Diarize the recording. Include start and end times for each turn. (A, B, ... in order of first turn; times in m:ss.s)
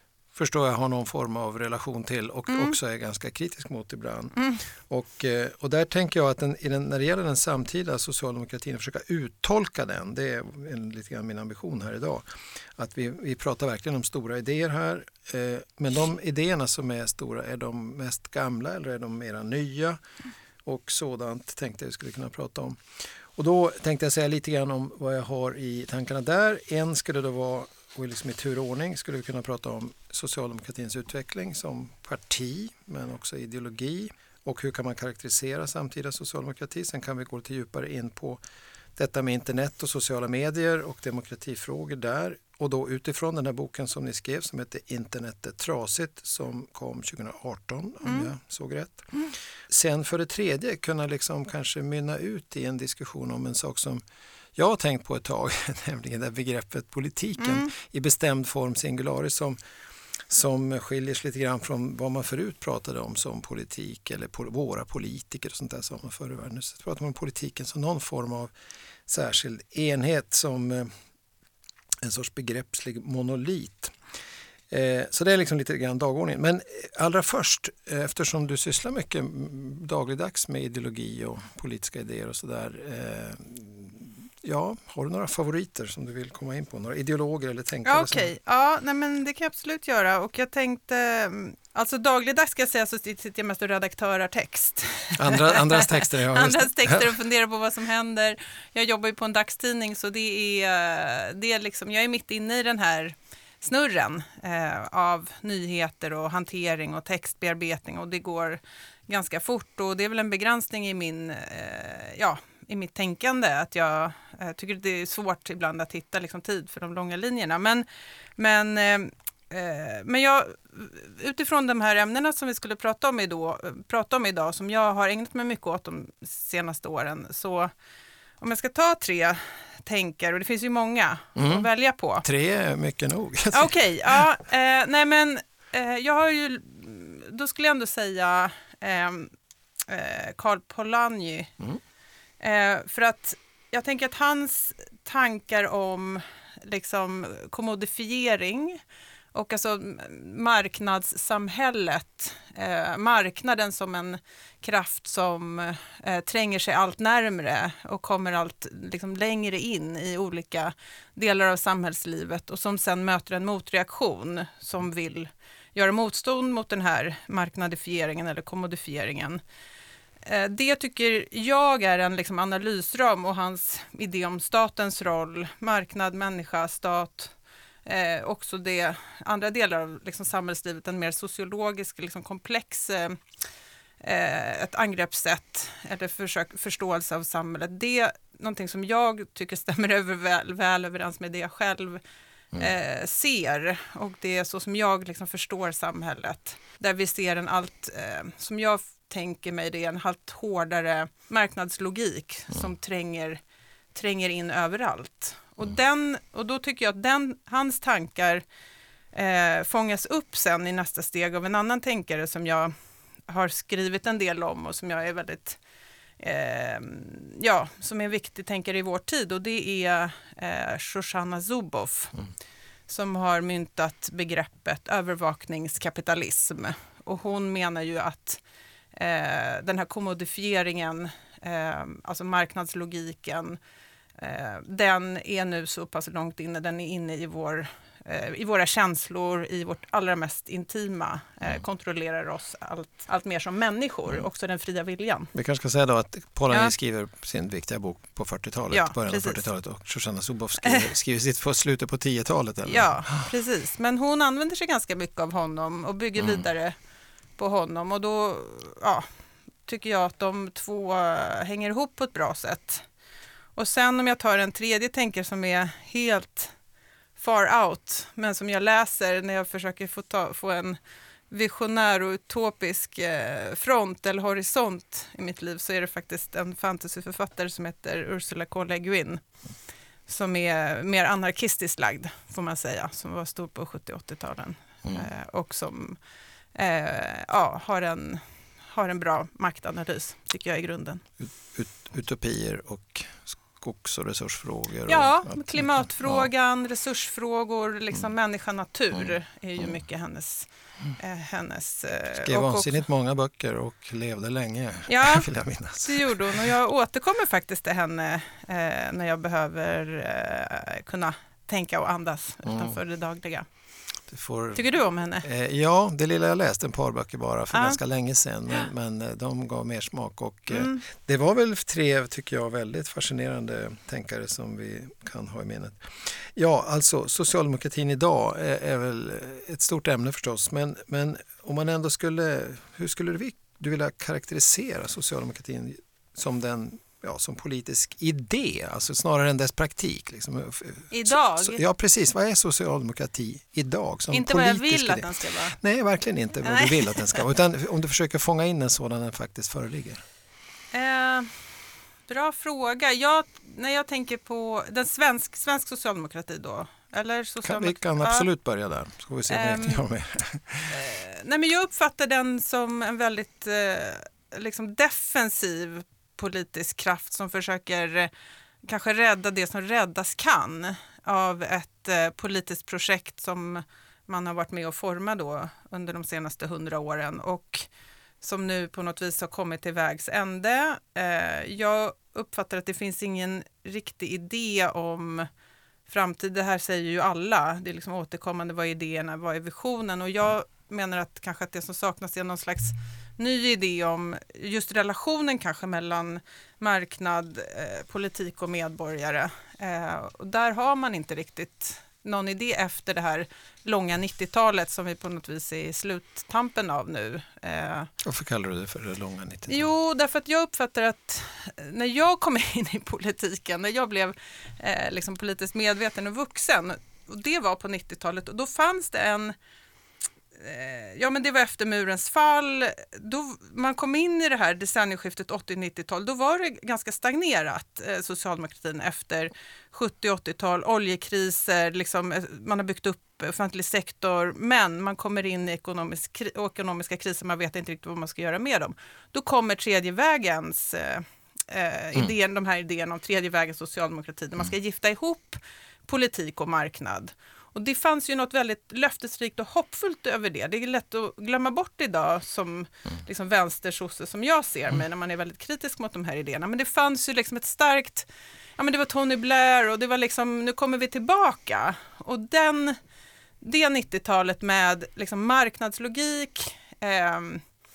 0:00.3-0:20.0 A
0:02.5-0:02.8 B
0:04.4-0:04.6 B
0:20.6-0:38.4 A
0:39.0-0:54.0 A
0:48.0-0:48.3 B
0:54.6-0:59.6 A
0:57.4-0:57.7 B
1:00.3-1:08.5 A
1:09.1-1:10.9 A
1:12.0-1:14.0 A
1:14.7-1:28.3 A
1:27.8-1:57.9 B
1:35.2-1:37.1 A
1:58.4-2:07.7 B
2:08.4-2:12.2 B
2:11.4-2:11.7 A
2:12.2-2:14.2 A
2:13.5-2:19.3 B
2:19.9-2:21.5 B
2:22.4-2:28.8 B
2:29.3-2:49.4 B
2:50.2-3:03.2 B
3:04.0-3:12.0 B
3:12.6-3:23.4 B
3:23.9-3:28.4 B
3:29.1-3:32.7 B
3:33.3-3:35.6 B
3:36.2-3:42.2 B
3:42.9-3:48.4 B
3:48.9-3:53.6 B
3:54.2-4:05.3 B
4:05.3-4:13.2 A
4:08.7-4:09.4 B
4:12.7-4:16.8 B
4:16.2-4:16.4 A
4:17.4-4:19.1 B
4:19.7-4:22.9 B
4:23.6-4:26.5 B
4:27.2-4:30.8 B
4:31.3-4:39.2 B
4:40.1-4:46.0 B
4:46.6-4:51.0 B
4:51.2-4:56.3 A
4:54.9-5:02.8 B
5:02.1-5:06.5 A
5:04.9-5:05.3 B
5:05.8-5:13.5 B
5:12.4-5:12.8 A
5:14.1-5:14.7 A
5:14.6-5:15.3 B
5:15.2-5:50.0 A
5:17.5-5:17.8 B
5:20.5-5:20.8 B
5:40.9-5:41.6 B
5:44.1-5:45.6 B
5:46.4-5:47.2 B
5:50.7-5:51.4 B
5:52.1-5:58.3 B
5:57.4-6:00.8 A
5:59.3-5:59.8 B
6:00.7-6:08.1 B
6:08.6-6:17.7 B
6:18.2-6:25.3 B
6:25.9-6:47.9 B
6:48.0-6:49.7 A
6:49.5-6:59.4 B
7:00.4-7:42.8 B
7:43.4-7:47.4 B